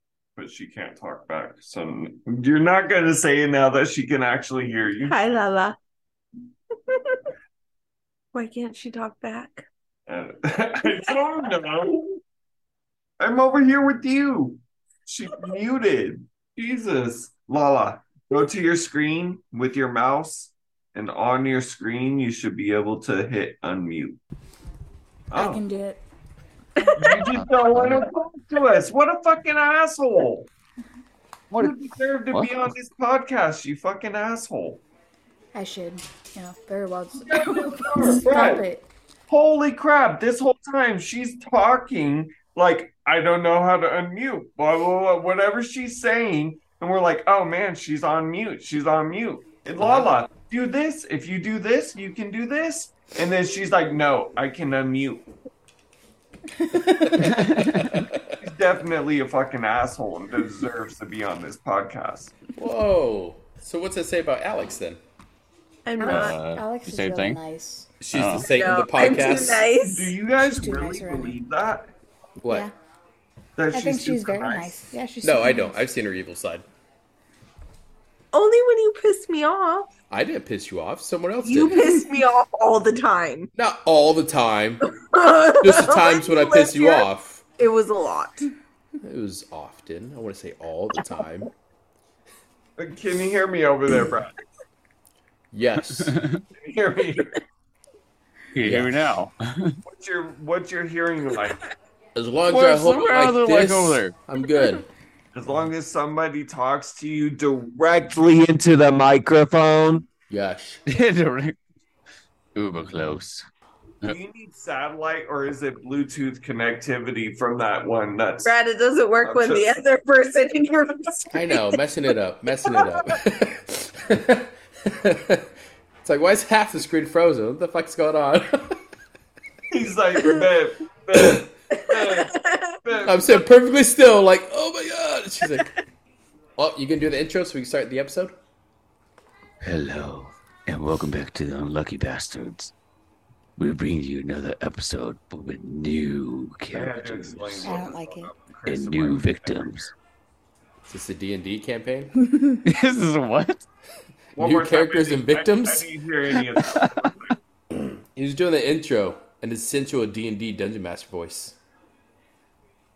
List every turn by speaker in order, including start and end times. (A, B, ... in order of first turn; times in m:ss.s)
0:00.4-0:05.2 A
0:05.0-0:05.8 B
0:06.9-0:07.2 B
0:08.3-0:09.7 B
0:10.1-0:12.2 A
0:13.2-0:24.2 A
0:25.3-0:25.6 A
0:25.3-0:26.0 C
0:26.8-0:27.3 B
0:27.0-0:30.5 A
0:27.8-0:28.0 D
0:31.6-0:34.8 A
0:32.3-0:32.7 D
0:35.5-0:38.9 C
0:37.3-0:38.6 A
0:37.6-0:38.2 B
0:39.3-0:55.3 A
0:56.7-0:57.1 C
0:56.7-0:58.4 E
0:57.2-0:58.0 D
0:58.4-1:02.3 A
1:02.6-1:05.0 E
1:05.8-1:06.4 B
1:06.0-1:07.9 C
1:06.1-1:07.4 D
1:08.0-1:09.7 E
1:08.1-1:08.5 D
1:08.5-1:10.2 B
1:09.7-1:11.9 A
1:10.4-1:11.4 C
1:12.4-1:12.7 E
1:13.6-1:15.0 A
1:13.7-1:15.8 C
1:15.2-1:16.6 E
1:18.3-1:19.9 B
1:20.1-1:22.0 E
1:21.4-1:23.5 B
1:23.6-1:24.9 E
1:24.9-1:28.5 B
1:25.6-1:27.4 E
1:29.0-1:31.5 E
1:32.8-1:34.4 A
1:35.5-1:36.1 E
1:35.8-1:36.4 D
1:36.6-1:37.4 A
1:38.5-1:39.8 D
1:38.6-1:39.1 E
1:39.9-1:41.7 A
1:42.2-1:44.8 E
1:42.5-1:44.2 D
1:45.3-1:50.0 A
1:50.3-1:50.8 E
1:50.9-1:51.6 D
1:52.6-1:53.5 D
1:54.0-1:58.6 A
1:58.4-2:01.7 B
1:59.2-1:59.7 A
2:01.3-2:05.5 E
2:06.0-2:08.8 E
2:09.7-2:13.5 A
2:11.1-2:11.4 E
2:11.7-2:12.8 B
2:13.0-2:15.7 E
2:16.6-2:18.3 E
2:19.6-2:22.7 D
2:23.6-2:27.9 D
2:26.7-2:29.9 A
2:27.6-2:28.3 C
2:28.7-2:29.9 D
2:30.8-2:32.1 E
2:32.6-2:33.6 D
2:34.4-2:37.4 A
2:34.4-2:35.9 E
2:36.4-2:36.9 D
2:37.8-2:41.6 E